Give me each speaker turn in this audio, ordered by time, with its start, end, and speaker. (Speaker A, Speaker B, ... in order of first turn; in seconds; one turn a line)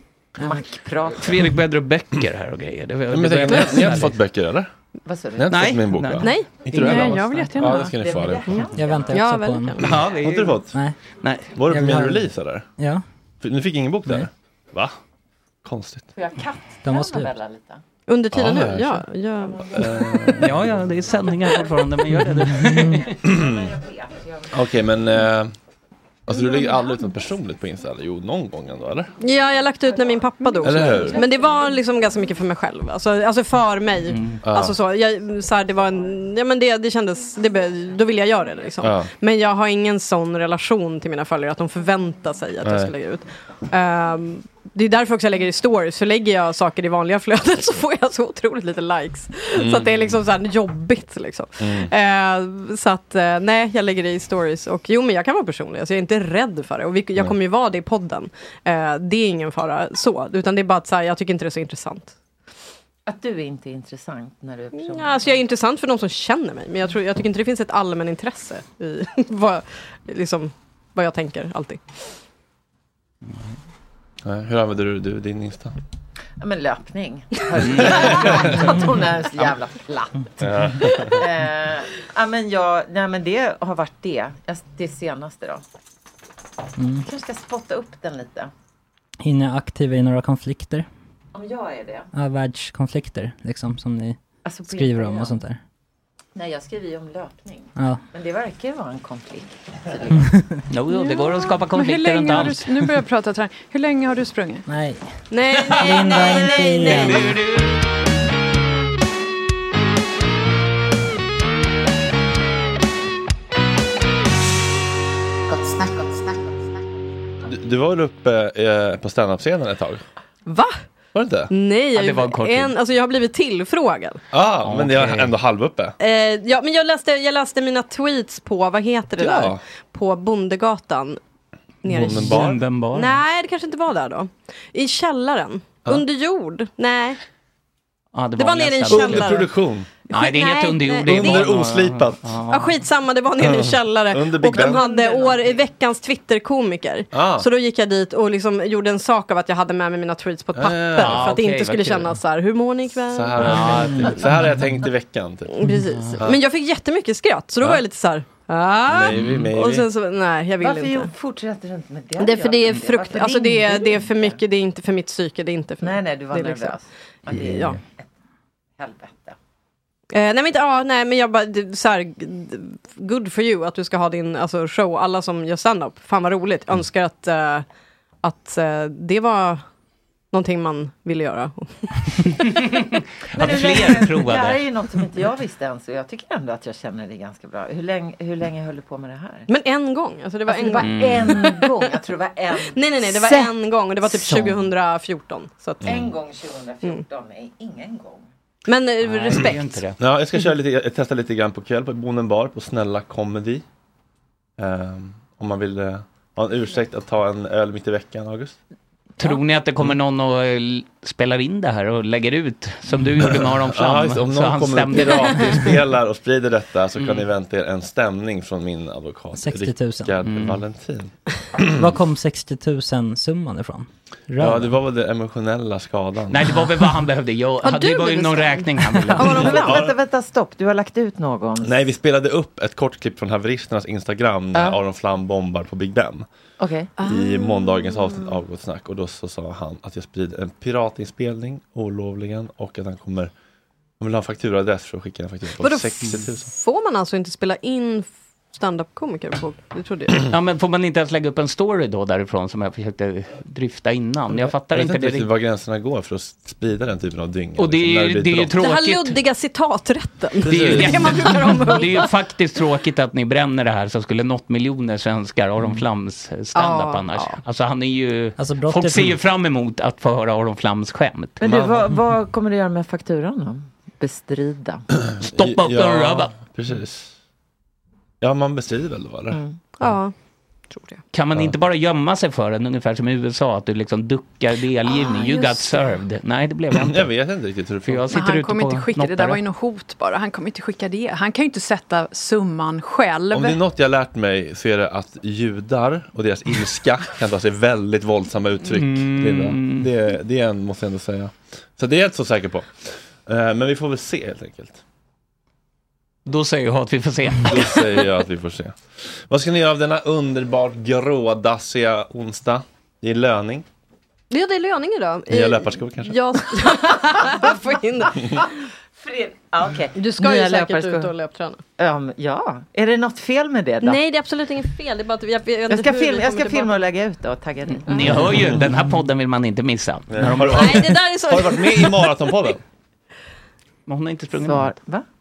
Speaker A: 0.4-1.4
Speaker B: 1.1-4.2
Speaker C: 3.1-4.7
Speaker A: 5.0-5.5
Speaker C: 5.3-8.7
Speaker B: 5.4-6.4
Speaker D: 6.2-6.6
Speaker E: 6.7-8.0
Speaker A: 6.7-9.2
Speaker F: 8.8-9.9
Speaker D: 9.1-9.9
Speaker B: 9.8-10.7
Speaker C: 9.9-10.8
Speaker F: 10.7-11.0
Speaker B: 11.2-11.6
Speaker C: 11.6-12.6
Speaker F: 11.7-13.0
Speaker C: 13.4-14.9
Speaker C: 15.6-16.1
Speaker A: 16.1-17.8
Speaker F: 16.8-17.3
Speaker D: 18.1-19.6
Speaker C: 18.3-19.0
Speaker A: 19.4-20.4
Speaker C: 19.7-20.6
Speaker B: 20.3-23.1
Speaker A: 21.1-21.8
Speaker F: 22.7-23.0
Speaker A: 22.9-25.1
Speaker C: 23.2-23.7
Speaker C: 24.5-25.5
Speaker C: 26.3-29.1
Speaker D: 29.2-62.1
Speaker C: 30.6-31.2
Speaker A: 30.9-31.6
Speaker B: 34.1-34.4
Speaker C: 34.4-34.8
Speaker C: 38.8-39.1
Speaker C: 42.6-42.9
Speaker C: 49.5-50.1
Speaker C: 51.6-51.9
Speaker A: 63.1-65.4
Speaker D: 64.8-72.1
Speaker C: 74.2-75.7
Speaker A: 76.4-85.6
Speaker B: 77.7-78.2
Speaker C: 77.8-78.7
Speaker C: 80.4-81.2
Speaker F: 86.8-87.0
Speaker A: 87.0-88.5
Speaker F: 89.2-90.8
Speaker A: 91.3-92.1
Speaker F: 92.1-95.6
Speaker A: 94.4-95.4
Speaker A: 96.3-100.4
Speaker F: 100.3-100.6
Speaker B: 100.7-102.9
Speaker E: 100.9-104.7
Speaker F: 104.7-105.0
Speaker D: 105.3-107.3
Speaker B: 105.5-107.8
Speaker F: 105.8-107.3
Speaker C: 117.4-120.0
Speaker D: 120.5-120.8
Speaker C: 121.1-121.5
Speaker D: 121.5-124.2
Speaker B: 121.9-122.7
Speaker C: 124.3-125.9
Speaker B: 124.6-125.4
Speaker D: 126.0-131.2
Speaker C: 129.2-129.6
Speaker D: 131.8-137.2
Speaker C: 131.8-132.6
Speaker B: 131.9-133.2
Speaker B: 138.1-139.5
Speaker D: 138.4-139.5
Speaker C: 138.9-140.0
Speaker D: 140.1-141.4
Speaker B: 140.1-142.8
Speaker C: 141.1-142.3
Speaker D: 142.5-153.9
Speaker C: 143.4-144.9
Speaker A: 144.5-145.6
Speaker C: 147.1-147.5
Speaker C: 150.5-151.2
Speaker B: 150.9-152.2
Speaker C: 153.0-155.6
Speaker B: 153.4-154.8
Speaker D: 155.5-161.1
Speaker B: 155.7-156.3
Speaker C: 158.9-159.9
Speaker B: 159.1-159.5
Speaker A: 160.6-164.4
Speaker D: 162.2-166.8
Speaker A: 165.8-168.1
Speaker D: 167.4-167.8
Speaker A: 168.8-169.3
Speaker D: 170.1-177.6
Speaker D: 178.2-179.6
Speaker D: 180.3-181.9
Speaker B: 182.4-184.6
Speaker A: 183.3-189.5
Speaker D: 189.5-191.8
Speaker A: 190.5-193.5
Speaker B: 190.8-191.4
Speaker D: 192.7-195.8
Speaker A: 194.1-194.5
Speaker A: 195.8-198.3
Speaker C: 195.8-196.1
Speaker D: 198.7-199.8
Speaker B: 199.0-200.0
Speaker C: 200.0-203.6
Speaker C: 204.6-208.6
Speaker B: 209.2-215.8
Speaker C: 213.2-221.9
Speaker B: 216.9-217.3
Speaker F: 219.3-220.1
Speaker B: 220.2-220.6
Speaker F: 221.7-224.8
Speaker C: 224.4-226.6
Speaker B: 226.3-229.7
Speaker D: 227.6-229.5
Speaker C: 229.2-229.9
Speaker A: 229.3-231.9
Speaker C: 231.6-236.2
Speaker A: 234.5-234.8
Speaker A: 236.6-236.9
Speaker E: 237.0-238.1
Speaker C: 237.0-243.3
Speaker C: 244.0-246.5
Speaker D: 245.6-250.2
Speaker B: 250.3-255.3
Speaker C: 254.7-258.5
Speaker B: 257.6-259.2
Speaker D: 258.6-262.1
Speaker C: 260.4-261.1
Speaker B: 260.4-271.5
Speaker D: 266.5-267.4
Speaker F: 268.4-269.2
Speaker C: 271.4-271.9
Speaker A: 271.4-274.9
Speaker C: 274.9-277.1
Speaker B: 275.2-276.4
Speaker C: 278.2-279.4
Speaker A: 279.3-279.7
Speaker D: 279.8-280.1
Speaker D: 280.7-281.0
Speaker B: 281.1-287.1
Speaker A: 285.0-285.3
Speaker C: 286.7-288.2
Speaker B: 287.8-289.4
Speaker E: 288.1-293.6
Speaker C: 293.3-304.8
Speaker B: 298.6-299.9
Speaker B: 306.2-308.0
Speaker C: 307.5-313.6
Speaker D: 314.3-318.3
Speaker C: 315.3-316.4
Speaker A: 318.4-321.1
Speaker D: 319.9-321.6
Speaker A: 321.8-324.0
Speaker D: 323.8-326.8
Speaker A: 325.7-328.1
Speaker B: 327.9-331.0
Speaker C: 328.3-328.6
Speaker C: 330.1-332.6
Speaker D: 330.5-332.1
Speaker B: 333.9-334.8
Speaker A: 334.3-335.0